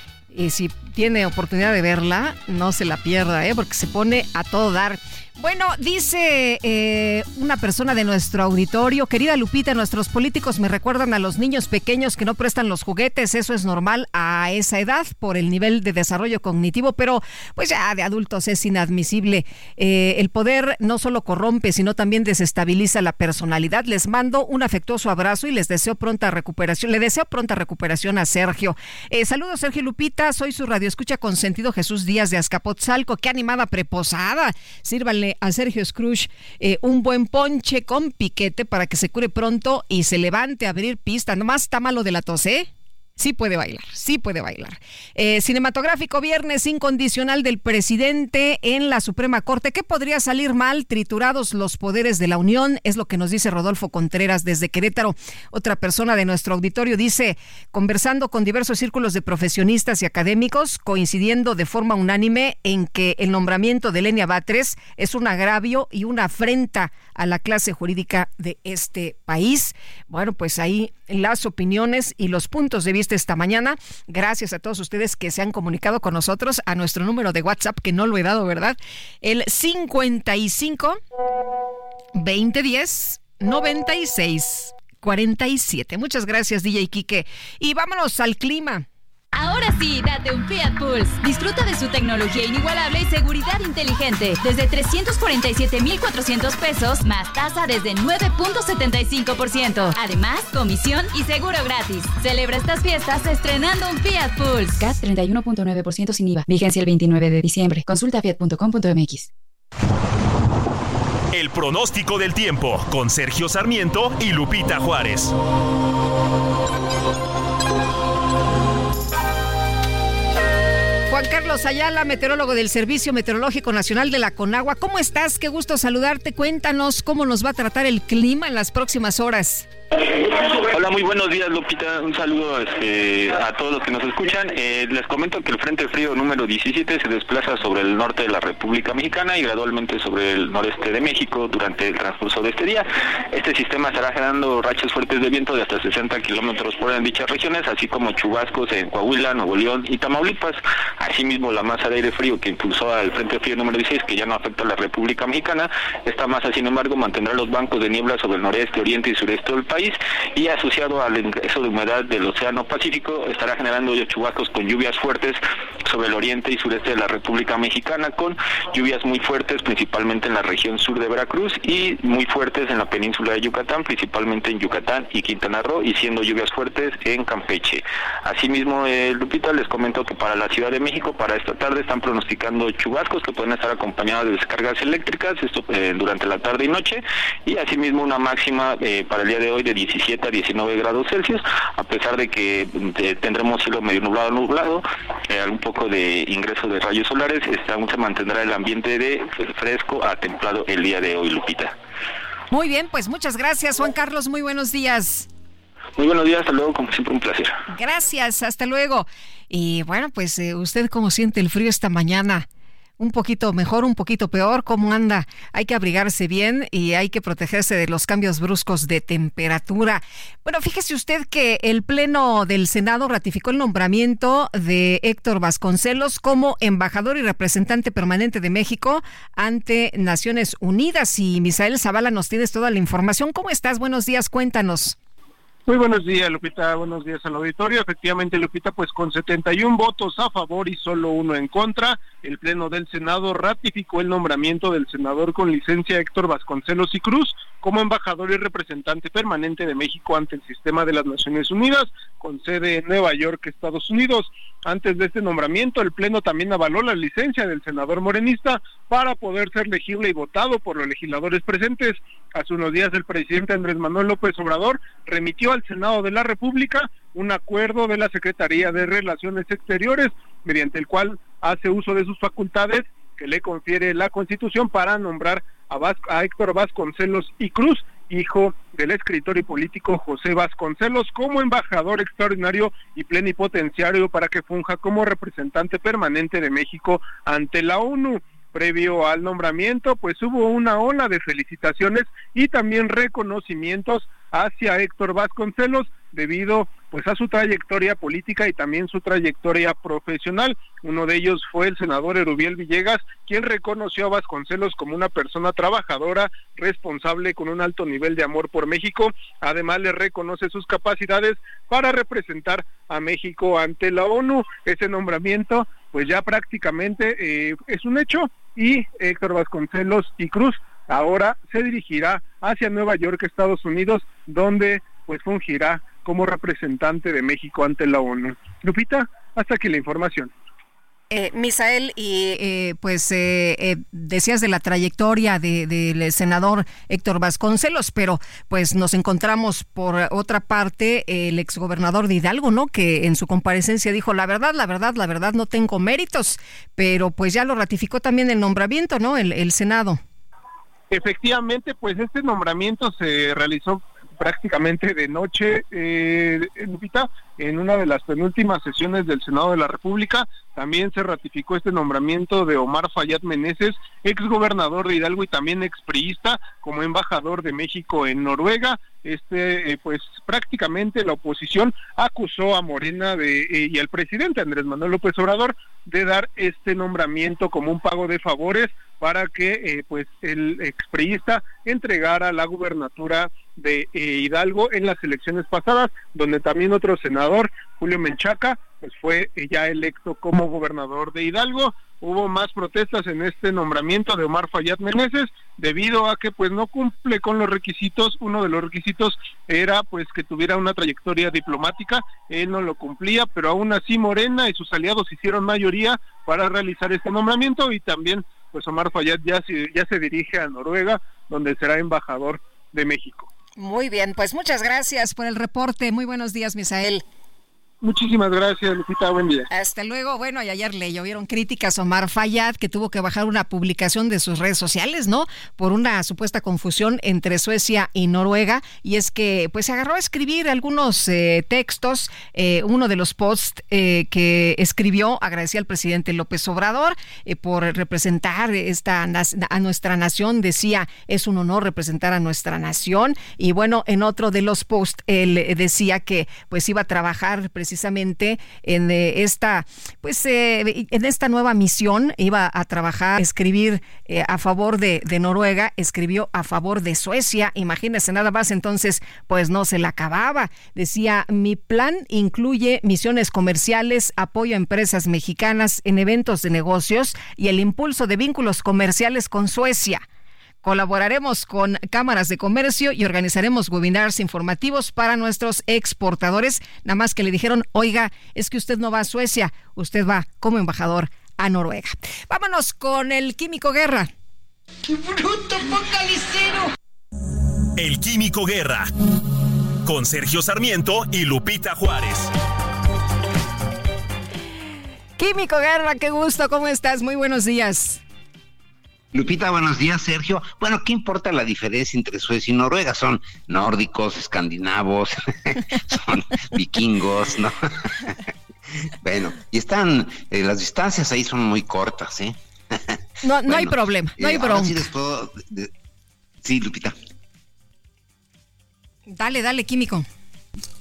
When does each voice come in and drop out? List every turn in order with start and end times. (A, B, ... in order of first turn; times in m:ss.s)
0:00.3-1:21.0 A
1:22.2-1:28.8 A
1:29.3-1:44.8 B
1:44.8-1:49.3 C
1:51.3-1:55.3 D
2:01.1-2:09.7 A
2:10.7-3:21.7 E
3:22.5-3:25.3 A
3:26.0-3:27.6 E
3:27.7-3:32.5 A
3:33.0-3:55.0 A
3:55.7-5:30.3 F
5:31.1-5:50.0 A
5:50.9-6:53.3 F
6:53.6-6:57.0 A
6:57.8-6:59.5 F
6:59.5-7:50.0 A
7:50.6-8:04.1 A
8:04.9-8:06.6 A
8:07.8-8:08.9 D
8:09.8-8:12.3 D
8:15.2-8:18.0 A
8:19.1-8:27.6 G
8:29.0-8:33.0 G
8:33.2-8:34.9 A
8:33.5-8:35.7 G
8:36.4-8:37.0 G
8:39.1-8:40.1 A